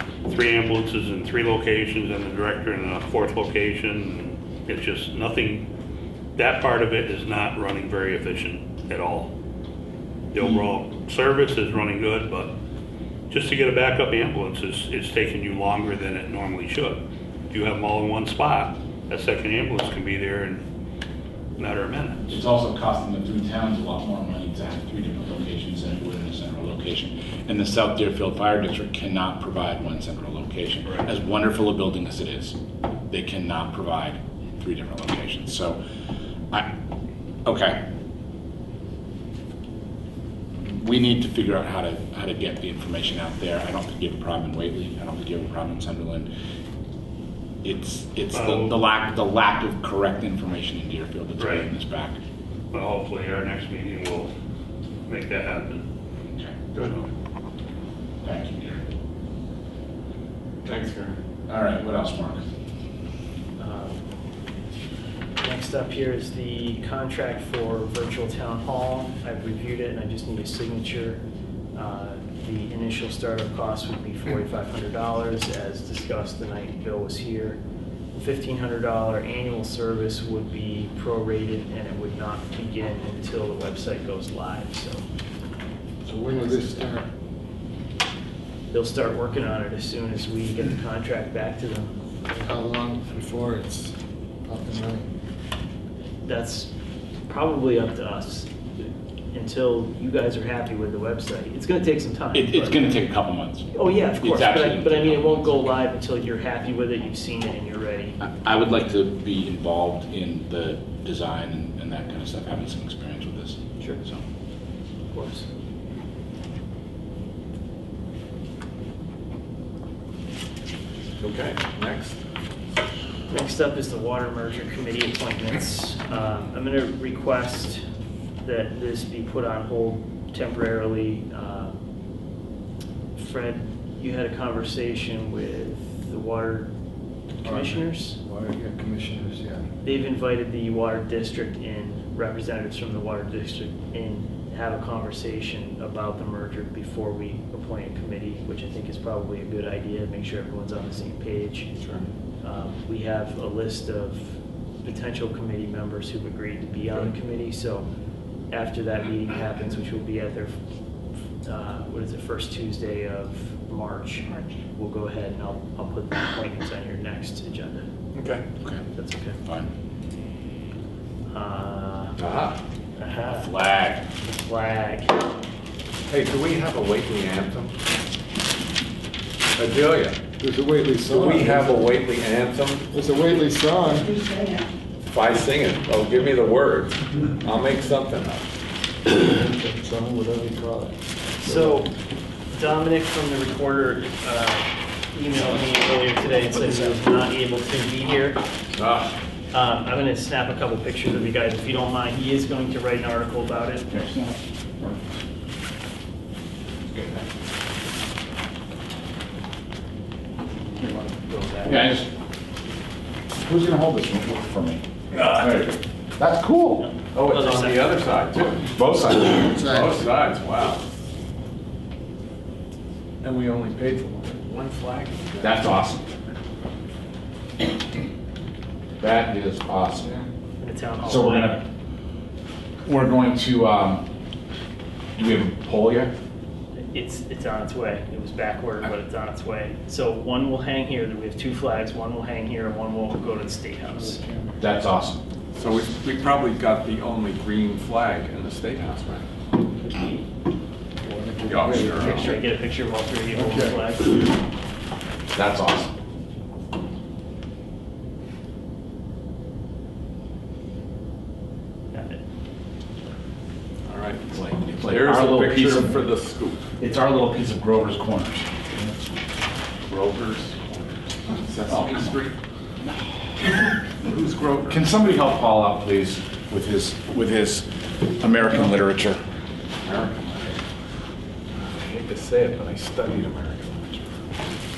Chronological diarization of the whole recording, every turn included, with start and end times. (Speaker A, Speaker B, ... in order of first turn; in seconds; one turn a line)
Speaker A: 0.2-5.7
Speaker A: 6.4-9.3
Speaker A: 10.3-12.5
Speaker A: 13.3-20.6
Speaker A: 21.6-22.3
Speaker B: 22.3-32.6
Speaker B: 33.1-35.8
Speaker B: 37.5-37.8
Speaker B: 40.6-46.3
Speaker B: 47.6-52.2
Speaker A: 48.3-48.8
Speaker A: 51.4-51.7
Speaker A: 52.7-54.3
Speaker A: 55.1-55.9
Speaker A: 56.8-57.1
Speaker B: 58.2-58.9
Speaker C: 60.6-61.2
Speaker B: 61.5-62.4
Speaker D: 63.6-64.1
Speaker D: 65.4-77.6
Speaker D: 78.1-85.1
Speaker E: 86.0-87.1
Speaker D: 88.7-92.0
Speaker E: 92.3-95.1
Speaker D: 96.2-96.7
Speaker D: 97.3-102.8
Speaker B: 102.3-105.8
Speaker D: 103.7-108.2
Speaker B: 108.2-114.2
Speaker D: 115.1-115.5
Speaker C: 121.2-122.2
Speaker D: 123.3-127.9
Speaker D: 128.4-131.8
Speaker D: 133.2-136.7
Speaker D: 137.4-138.2
Speaker E: 137.4-139.7
Speaker D: 139.8-151.7
Speaker C: 151.8-152.1
Speaker D: 152.4-157.9
Speaker D: 158.5-160.6
Speaker D: 161.4-167.9
Speaker C: 168.2-168.4
Speaker D: 168.9-169.4
Speaker B: 169.4-169.7
Speaker D: 171.3-172.2
Speaker C: 172.2-172.6
Speaker D: 173.0-173.5
Speaker B: 173.4-174.1
Speaker D: 174.2-175.2
Speaker C: 176.1-177.7
Speaker C: 179.6-180.2
Speaker E: 180.4-181.9
Speaker C: 181.1-183.0
Speaker E: 182.9-184.3
Speaker C: 185.1-188.5
Speaker E: 189.1-191.8
Speaker D: 191.4-191.9
Speaker D: 192.5-198.4
Speaker C: 198.8-199.1
Speaker D: 199.5-203.9
Speaker B: 203.9-204.4
Speaker B: 206.9-207.2
Speaker D: 210.8-211.7
Speaker B: 211.6-212.1
Speaker B: 213.4-217.0
Speaker C: 217.1-218.7
Speaker D: 217.2-218.0
Speaker B: 218.6-219.7
Speaker E: 219.4-219.9
Speaker C: 219.5-220.8
Speaker C: 223.2-225.6
Speaker B: 225.4-226.1
Speaker B: 229.0-230.2
Speaker D: 230.6-231.6
Speaker B: 231.0-231.6
Speaker B: 232.8-234.0
Speaker B: 235.2-236.1
Speaker D: 236.8-244.2
Speaker E: 243.9-244.6
Speaker B: 244.6-245.2
Speaker C: 245.5-249.3
Speaker E: 251.0-252.4
Speaker C: 251.4-252.4
Speaker D: 251.9-254.3
Speaker E: 253.3-253.9
Speaker B: 255.3-255.9
Speaker D: 261.9-262.2
Speaker C: 263.9-266.6
Speaker B: 264.3-266.1
Speaker B: 266.8-268.6
Speaker C: 269.9-272.4
Speaker B: 271.7-272.1
Speaker C: 274.0-274.9
Speaker B: 274.7-279.2
Speaker C: 279.8-280.6
Speaker C: 281.5-284.4